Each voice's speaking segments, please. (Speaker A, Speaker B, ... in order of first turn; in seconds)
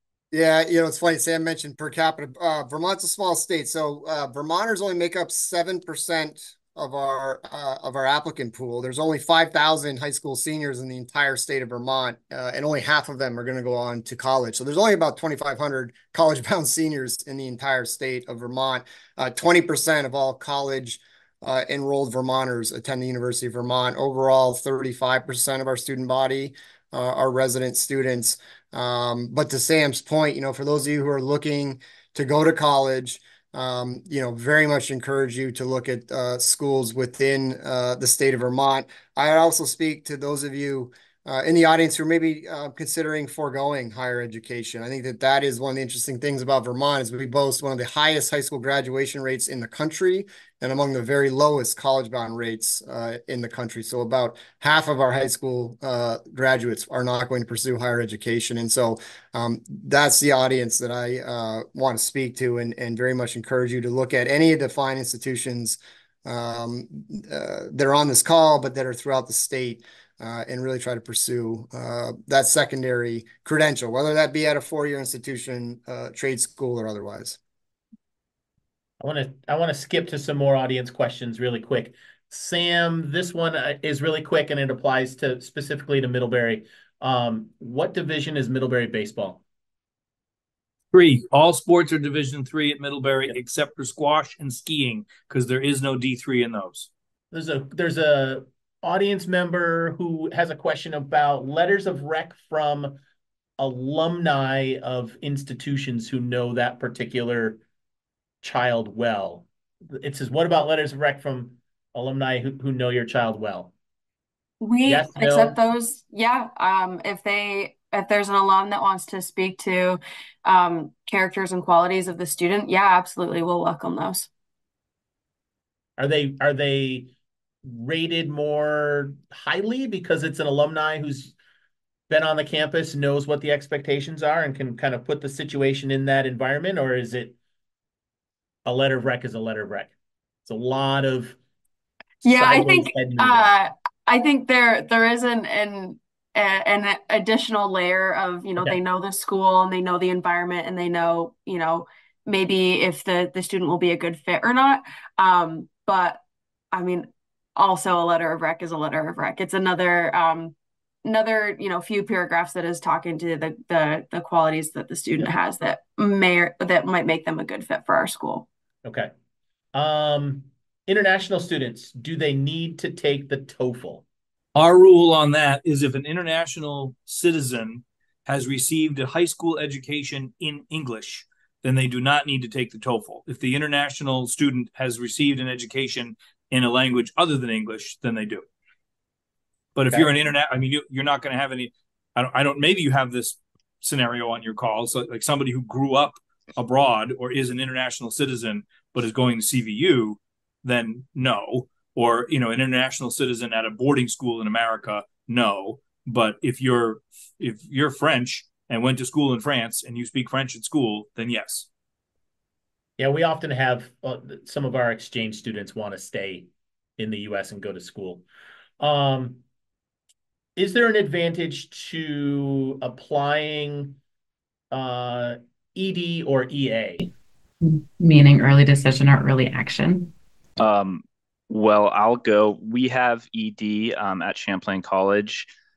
Speaker A: 0.3-77.4
Speaker B: 79.0-89.4, 97.3-103.0, 103.6-107.6, 108.4-113.7, 114.8-115.6, 126.0-127.1, 127.6-131.3, 132.1-137.4, 138.7-139.9, 140.5-141.4, 142.3-143.5, 168.8-169.1, 169.7-174.0, 213.0-218.2, 218.8-219.4, 220.6-224.0, 224.7-227.1
Speaker C: 90.9-96.9, 174.6-188.5, 189.8-211.7
Speaker D: 114.6-124.3, 142.2-160.5, 161.1-168.4
Speaker E: 227.6-230.1
Speaker F: 230.6-235.5